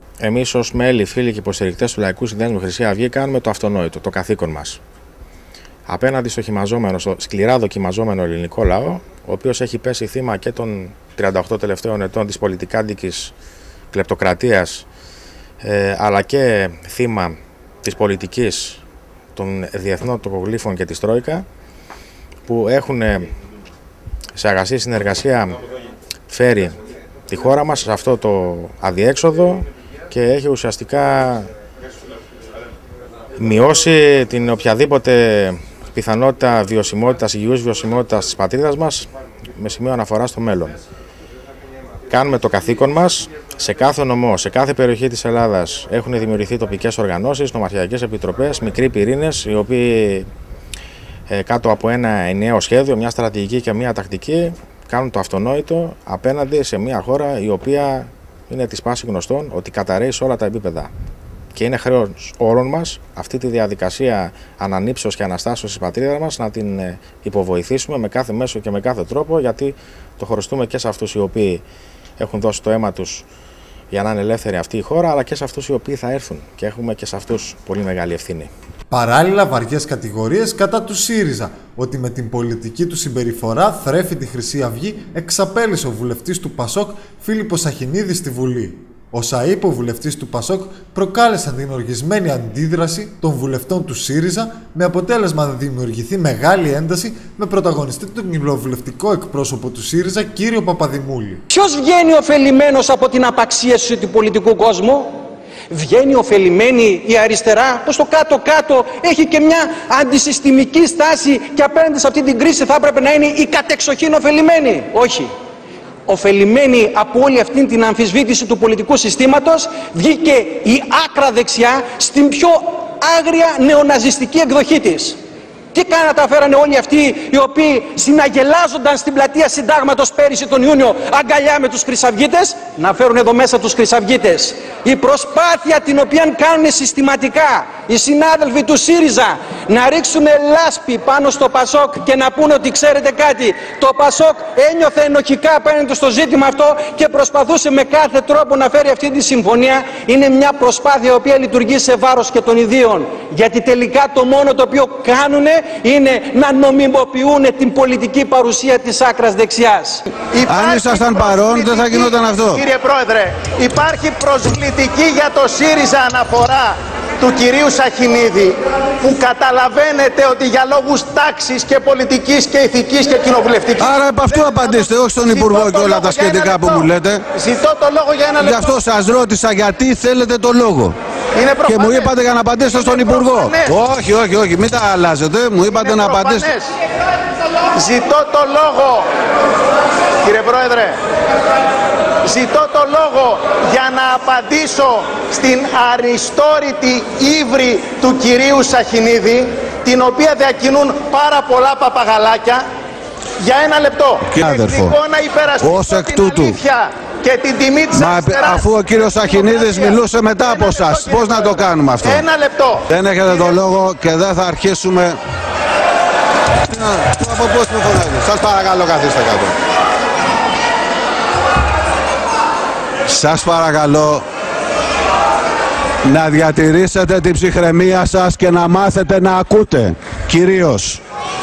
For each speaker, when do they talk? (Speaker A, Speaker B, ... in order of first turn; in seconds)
Speaker A: 0.2-4.8, 5.9-13.3, 13.9-14.9, 15.6-18.8, 19.4-21.4, 22.5-23.3, 24.4-25.6, 26.3-26.8, 27.3-31.5, 33.4-40.8, 42.1-50.3, 51.3-60.9, 61.5-71.6, 72.2-73.2, 73.9-78.5
Speaker B: 78.9-101.4
Speaker C: 101.5-115.3, 116.1-125.2, 125.7-160.1
Speaker D: 160.2-178.8, 181.4-182.1, 182.7-183.8, 185.6-186.7, 187.7-189.1, 190.2-191.0, 192.2-202.7, 203.4-213.5
Speaker E: 160.5-162.6, 173.8-177.2, 178.4-180.9, 181.7-186.5, 204.3-205.0, 205.6-206.6, 207.9-212.2, 212.9-215.2, 216.6-219.5, 223.1-224.2, 226.1-231.0